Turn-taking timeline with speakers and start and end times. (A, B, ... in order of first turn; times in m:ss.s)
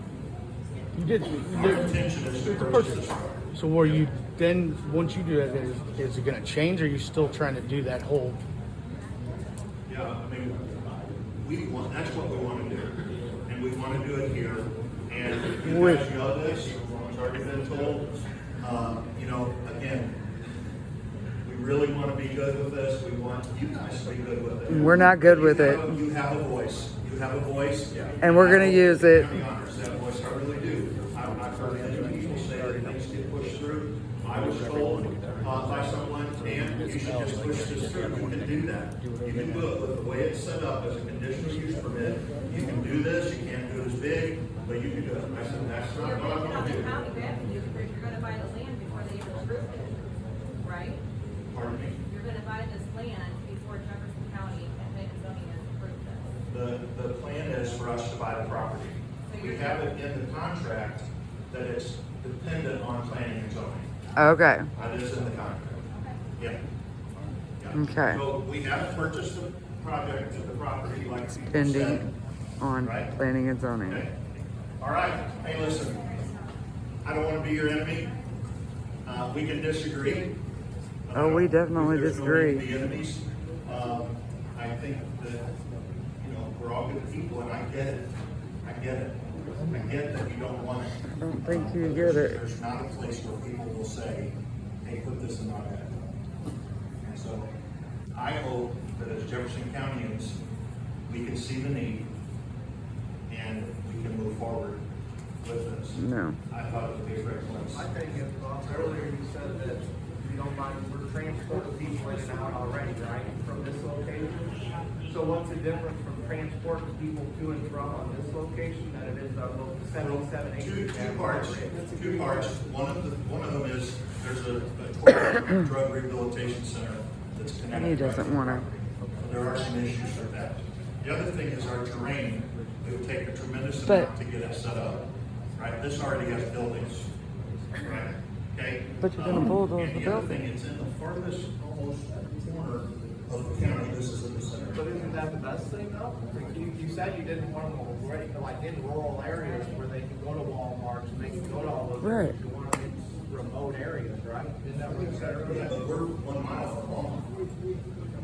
0:01.0-0:03.0 A
0:01.5-0:04.1 B
0:03.5-0:08.4 A
0:09.9-0:13.0 B
0:13.5-0:20.2 B
0:15.6-0:16.0 C
0:21.4-0:47.3 B
0:24.7-0:26.0 C
0:28.2-0:29.4 C
0:34.6-0:35.0 A
0:36.6-0:38.5 A
0:39.0-0:39.6 A
0:46.0-0:50.1 D
0:50.6-0:51.0 D
0:51.5-0:52.0 B
0:52.0-0:56.3 D
0:56.5-1:03.9 B
0:59.3-0:59.8 D
1:04.2-1:04.7 C
1:04.7-1:05.8 B
1:07.6-1:12.1 B
1:07.7-1:08.2 C
1:11.5-1:12.1 C
1:12.6-1:14.1 C
1:12.8-1:13.1 B
1:13.8-1:14.1 B
1:14.8-1:16.2 B
1:17.0-1:18.1 B
1:19.0-1:20.3 B
1:21.1-1:25.4 B
1:21.1-1:22.7 C
1:26.2-1:28.1 B
1:28.6-1:34.3 B
1:31.2-1:32.4 C
1:34.8-1:35.9 B
1:37.0-1:37.5 B
1:38.1-1:40.4 B
1:41.1-1:42.1 B
1:43.3-1:44.8 B
1:45.4-1:47.8 B
1:46.0-1:46.4 C
1:47.7-2:02.5 E
2:00.0-2:15.0 B
2:07.7-2:08.7 C
2:13.8-2:14.1 C
2:15.6-2:17.1 B
2:17.7-2:25.1 B
2:19.0-2:20.4 C
2:24.8-2:35.7 E
2:32.0-2:32.3 C
2:35.4-2:37.3 B